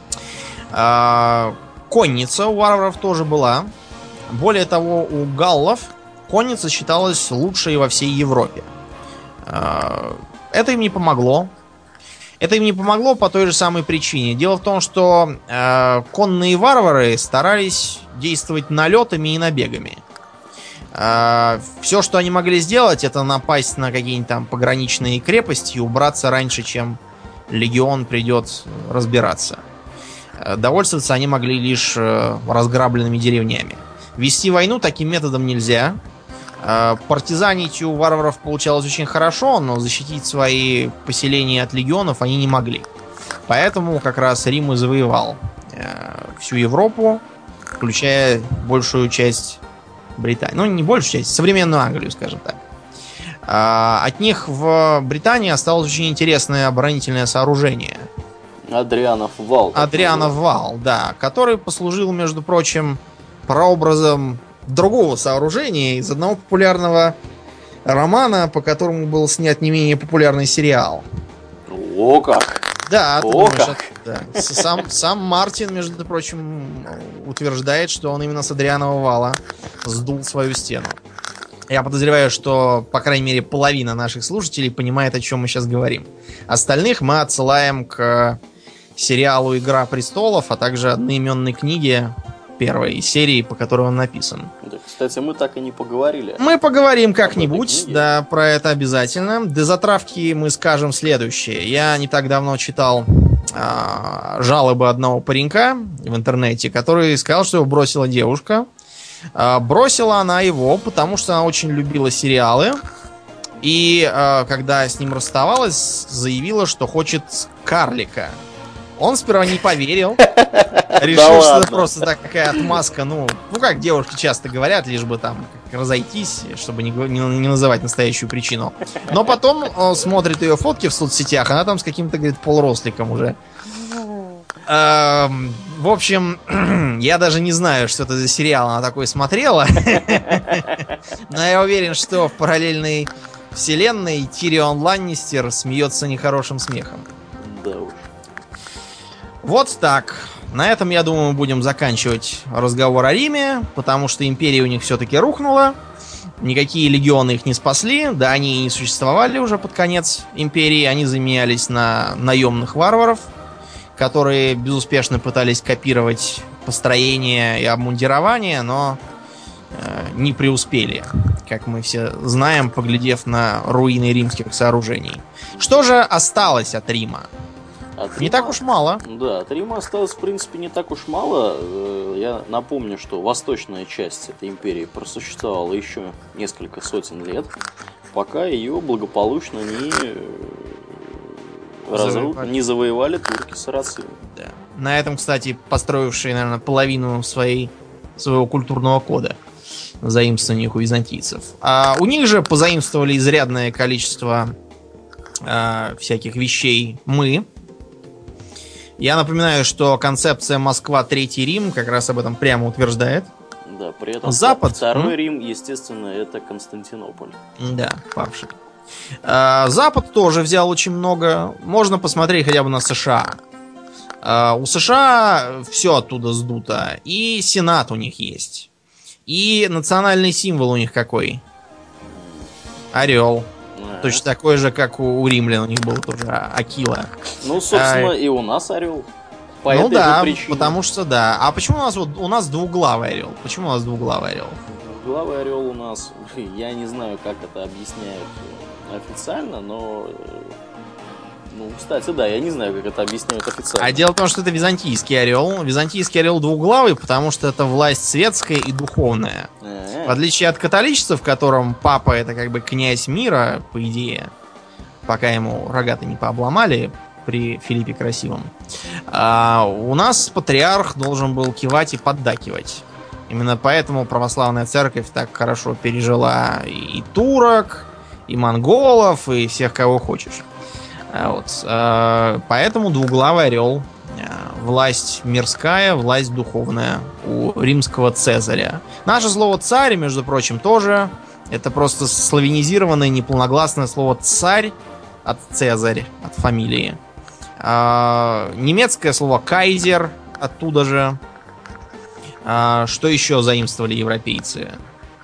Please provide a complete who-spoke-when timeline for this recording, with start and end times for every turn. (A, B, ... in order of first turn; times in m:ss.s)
0:00.7-0:03.7 A
0:04.3-0:08.7 A
0:09.4-0:11.5 A
0:12.4-0:20.0 A
0:20.9-0:27.0 A
0:27.5-0:29.6 A
0:30.4-0:36.0 A
0:36.6-0:42.9 A
0:43.5-0:47.2 A
0:47.8-0:49.6 A
0:50.2-0:52.6 A
0:53.4-0:58.1 A
0:58.7-1:00.4 B
0:59.7-1:07.2 A
1:07.8-1:11.0 A
1:11.7-1:12.7 B
1:12.8-1:21.0 A
1:13.2-1:14.8 B
1:21.7-1:28.4 A
1:29.0-1:34.5 A
1:34.6-1:36.4 B
1:36.4-1:48.7 A
1:37.2-1:38.1 B
1:49.3-1:52.8 A
1:53.6-1:58.4 A
1:59.0-2:00.2 A
2:00.2-2:01.9 B
2:01.0-2:13.4 A
2:14.6-2:27.0 A
2:20.3-2:20.8 B
2:27.4-2:28.1 B
2:29.4-2:35.8 A
2:36.4-2:43.3 A
2:44.0-2:49.0 A
2:49.7-2:57.3 A
2:55.5-2:55.9 B
2:58.0-3:07.5 B
2:58.2-2:59.0 A
3:08.1-3:14.2 B
3:11.9-3:12.5 A
3:14.3-3:19.4 A
3:20.0-3:24.5 A
3:25.4-3:27.5 A
3:29.0-3:33.3 A
3:33.7-3:37.4 B
3:34.2-3:35.1 A
3:37.6-3:38.5 A
3:39.2-3:43.4 A
3:44.2-3:48.7 A
3:49.3-3:51.4 A
3:52.1-3:52.5 B
3:52.9-3:53.5 A
3:53.7-3:54.2 B
3:54.0-3:57.1 A
3:57.4-3:59.1 B
3:57.7-3:58.1 A
3:59.6-4:00.8 B
3:59.7-4:04.6 A
4:04.7-4:10.6 B
4:11.5-4:14.0 B
4:13.8-4:19.5 A
4:19.6-4:20.2 B
4:20.0-4:24.3 A
4:25.0-4:28.5 A
4:29.1-4:40.4 A
4:41.1-4:57.0 A
4:57.6-5:01.2 A
5:02.4-5:04.8 A